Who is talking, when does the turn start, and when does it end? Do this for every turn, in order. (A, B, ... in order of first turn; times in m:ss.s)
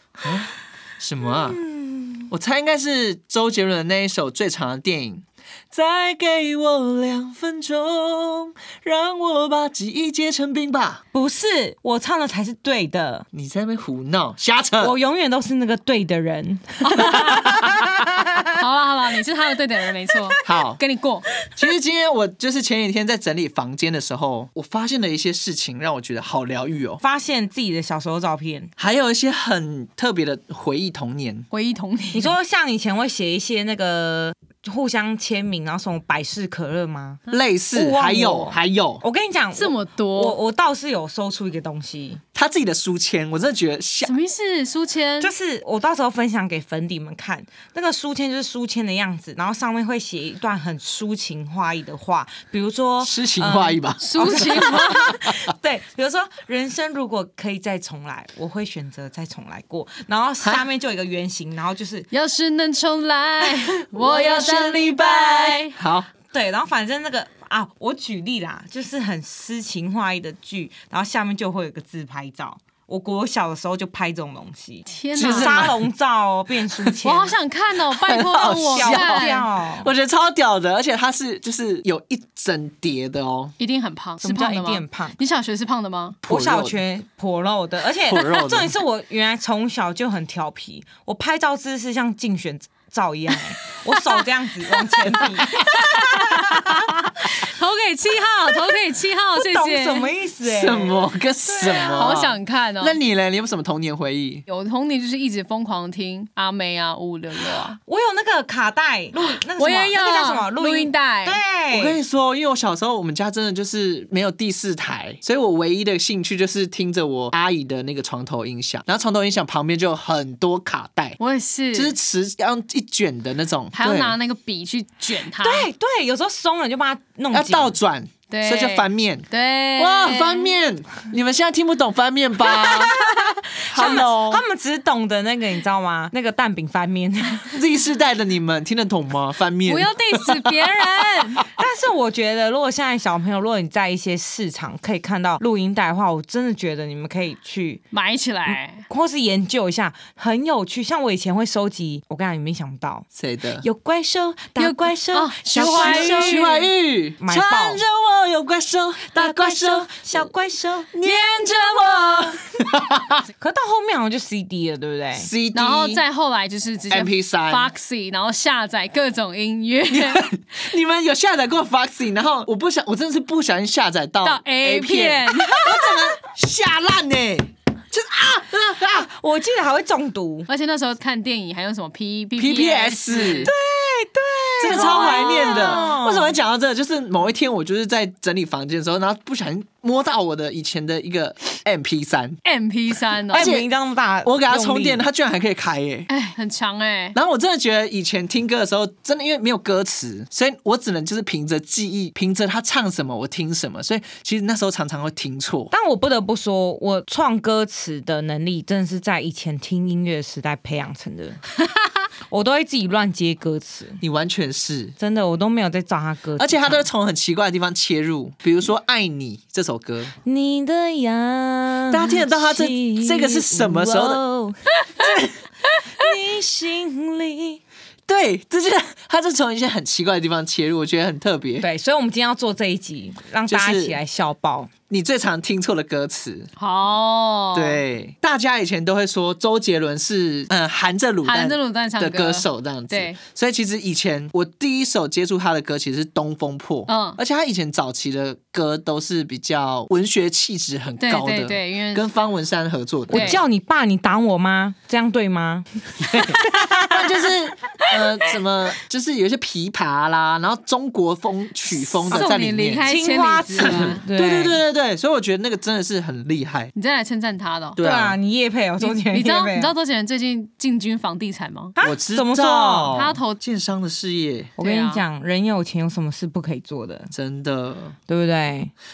0:00.2-0:01.6 A
0:01.2-0:02.3 B
0:02.3-0:11.0 A
0:11.1-0:13.2 B
0:13.3-0:14.9 A
0:14.8-0:18.4 B
0:16.8-0:17.7 C
0:17.0-0:17.7 A
0:18.5-0:21.3 C
0:20.4-0:20.8 A
0:21.6-0:27.0 A
0:27.0-0:28.7 B
0:28.8-0:31.5 A
0:31.5-0:32.3 C
0:32.1-0:37.2 B
0:37.3-0:39.0 A
0:37.7-0:42.2 B
0:39.5-0:40.4 C
0:42.3-0:44.1 A
0:44.0-0:45.3 C
0:45.2-1:02.1 B
0:53.0-0:54.7 A
0:54.0-0:55.2 C
1:02.1-1:05.7 C
1:03.8-1:06.1 A
1:06.3-1:17.3 B
1:14.9-1:15.7 C
1:15.2-1:15.8 A
1:17.0-1:19.5 C
1:17.9-1:23.5 A
1:18.5-1:19.9 B
1:23.6-1:26.2 C
1:24.2-1:25.2 B
1:26.2-1:36.9 B
1:26.2-1:26.8 A
1:28.1-1:28.7 A
1:35.2-1:40.1 C
1:39.4-1:41.1 B
1:40.4-1:44.4 A
1:41.5-1:43.0 C
1:41.7-1:42.1 B
1:44.5-1:47.8 C
1:47.8-1:52.0 B
1:49.5-1:51.4 C
1:51.7-2:01.2 A
2:01.2-2:02.0 C
2:01.7-2:04.1 A
2:03.7-2:05.7 C
2:05.4-2:07.7 B
2:07.3-2:09.2 A
2:08.3-2:10.6 C
2:09.8-2:13.0 A
2:12.4-2:17.6 B
2:13.6-2:14.4 A
2:17.5-2:20.5 A
2:19.6-2:21.5 C
2:21.5-2:27.8 B
2:27.9-2:28.9 C
2:28.9-2:33.1 B
2:33.2-2:33.6 A
2:33.6-2:36.6 B
2:34.6-2:36.7 C
2:35.5-2:40.3 A
2:37.2-2:37.8 B
2:39.1-2:40.9 B
2:40.9-2:43.3 A
2:41.0-2:42.4 C
2:43.4-2:45.3 B
2:45.2-2:46.0 A
2:45.5-2:50.2 C
2:46.9-2:47.7 A
2:49.9-2:59.1 A
2:54.2-2:56.0 C
2:58.8-3:00.5 B
3:00.5-3:03.5 C
3:02.4-3:12.4 A
3:03.2-3:03.6 B
3:04.3-3:06.4 B
3:04.6-3:06.0 C
3:12.4-3:13.5 C
3:13.3-3:15.0 B
3:13.3-3:13.7 A
3:14.2-3:16.1 A
3:16.1-3:17.2 C
3:17.1-3:25.7 A
3:25.7-3:31.4 B
3:32.3-3:34.0 B
3:34.0-3:34.9 A
3:35.0-3:36.8 B
3:36.4-3:40.1 A
3:40.2-3:44.9 B
3:41.9-3:44.2 A
3:45.0-3:45.4 A
3:45.8-3:47.6 B
3:48.1-3:51.6 A
3:51.6-3:54.7 B
3:53.5-3:54.0 A
3:54.9-3:56.5 A
3:56.6-3:57.8 C
3:57.5-4:13.4 A
4:01.2-4:03.2 C
4:06.9-4:07.2 C
4:11.0-4:12.0 C
4:13.1-4:13.4 C
4:13.1-4:17.2 B
4:16.0-4:16.4 A
4:16.9-4:22.9 A
4:21.9-4:24.0 C
4:22.1-4:24.6 B
4:23.6-4:26.7 A
4:26.7-4:27.8 C
4:27.8-4:28.2 A
4:27.8-4:29.7 B
4:28.8-4:31.7 C
4:31.8-4:33.0 B
4:31.8-4:34.5 A
4:32.9-4:33.4 C
4:34.6-4:37.1 B
4:34.6-4:35.0 C
4:37.1-4:38.0 A
4:38.1-4:38.7 B